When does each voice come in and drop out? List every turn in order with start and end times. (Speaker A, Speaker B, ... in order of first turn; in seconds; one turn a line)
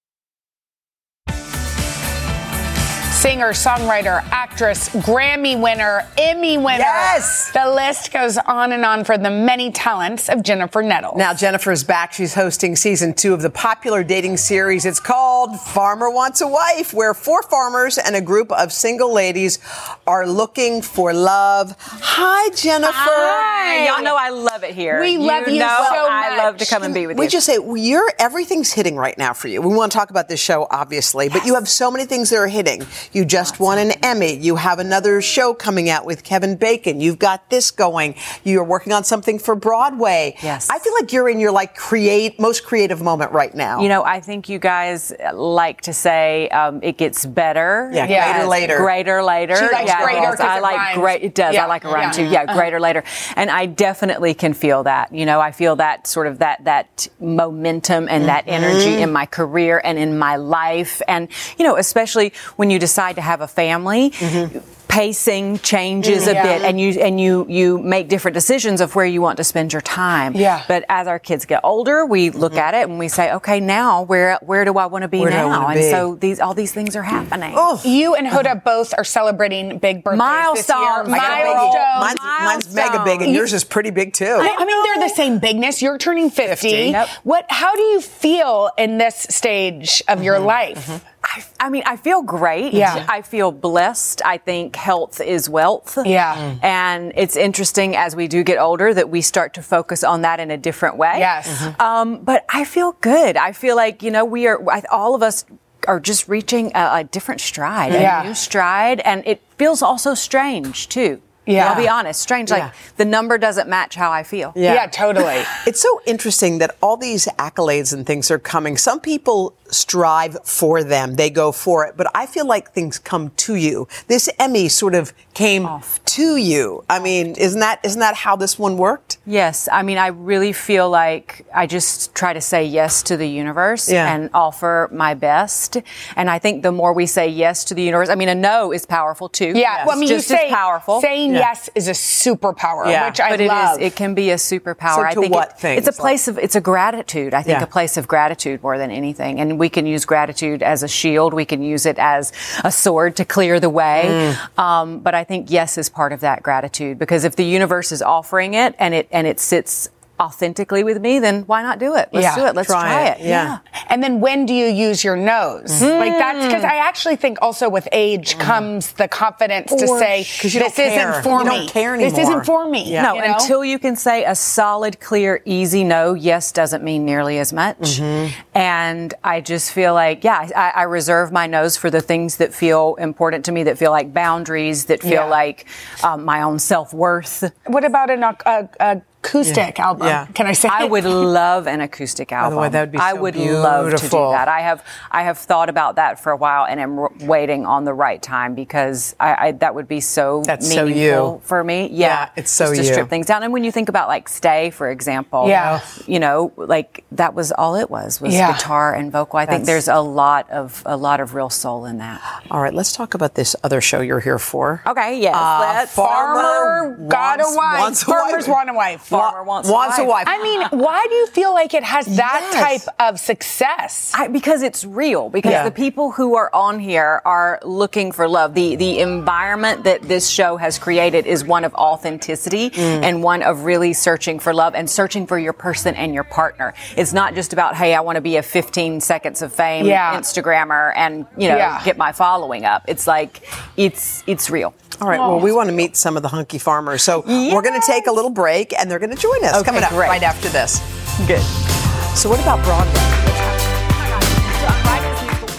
Speaker A: 3.1-11.2
Speaker B: 6.7-7.5
Speaker B: 11.1-24.1
Speaker C: 22.8-27.4
Speaker A: 23.3-24.1
Speaker A: 24.9-26.9
Speaker B: 25.4-26.0
Speaker B: 26.9-43.9
Speaker C: 40.4-40.8
Speaker C: 43.8-77.7
Speaker B: 47.9-48.9
Speaker A: 48.0-48.5
Speaker A: 49.5-52.6
Speaker B: 49.6-50.6
Speaker B: 51.9-52.3
Speaker B: 58.2-59.1
Speaker B: 64.2-64.5
Speaker B: 66.0-66.6
Speaker A: 66.2-66.7
Speaker A: 70.3-70.7
Speaker B: 75.2-76.1
Speaker B: 77.5-77.9
Speaker A: 77.8-82.2
Speaker C: 80.1-83.4
Speaker B: 81.1-84.6
Speaker A: 84.4-91.0
Speaker C: 84.4-85.0
Speaker B: 86.4-87.0
Speaker C: 86.8-87.1
Speaker C: 91.2-114.6
Speaker A: 92.7-93.0
Speaker A: 96.0-96.5
Speaker A: 101.1-101.7
Speaker B: 107.9-108.2
Speaker A: 107.9-108.3
Speaker A: 111.5-111.9
Speaker B: 111.6-111.8
Speaker B: 114.5-114.9
Speaker A: 114.6-115.5
Speaker B: 115.5-129.2
Speaker C: 125.6-126.1
Speaker C: 129.2-141.1
Speaker B: 133.9-134.2
Speaker A: 139.5-143.8
Speaker B: 139.7-139.9
Speaker B: 142.8-143.2
Speaker C: 143.2-163.6
Speaker B: 144.9-146.2
Speaker B: 153.9-154.4
Speaker A: 162.1-162.4
Speaker B: 162.6-163.6
Speaker A: 163.8-173.5
Speaker C: 165.8-166.7
Speaker B: 168.3-168.7
Speaker B: 169.7-173.2
Speaker C: 172.9-187.5
Speaker B: 177.8-178.3
Speaker A: 187.7-191.3
Speaker B: 189.4-190.3
Speaker C: 190.7-212.2
Speaker B: 192.4-194.4
Speaker B: 200.4-201.3
Speaker B: 202.0-203.1
Speaker A: 205.4-205.8
Speaker B: 205.5-205.8
Speaker A: 208.2-208.6
Speaker B: 209.5-209.8
Speaker B: 212.5-218.6
Speaker C: 214.8-216.0
Speaker A: 215.9-219.1
Speaker C: 219.1-220.2
Speaker B: 219.1-220.5
Speaker A: 220.2-224.1
Speaker B: 222.1-222.8
Speaker C: 224.1-244.8
Speaker A: 225.4-225.7
Speaker B: 225.4-225.7
Speaker B: 232.8-233.1
Speaker A: 239.8-240.2
Speaker A: 241.5-241.8
Speaker B: 245.0-250.8
Speaker A: 245.1-245.4
Speaker C: 247.2-248.1
Speaker C: 249.5-250.2
Speaker B: 252.1-253.6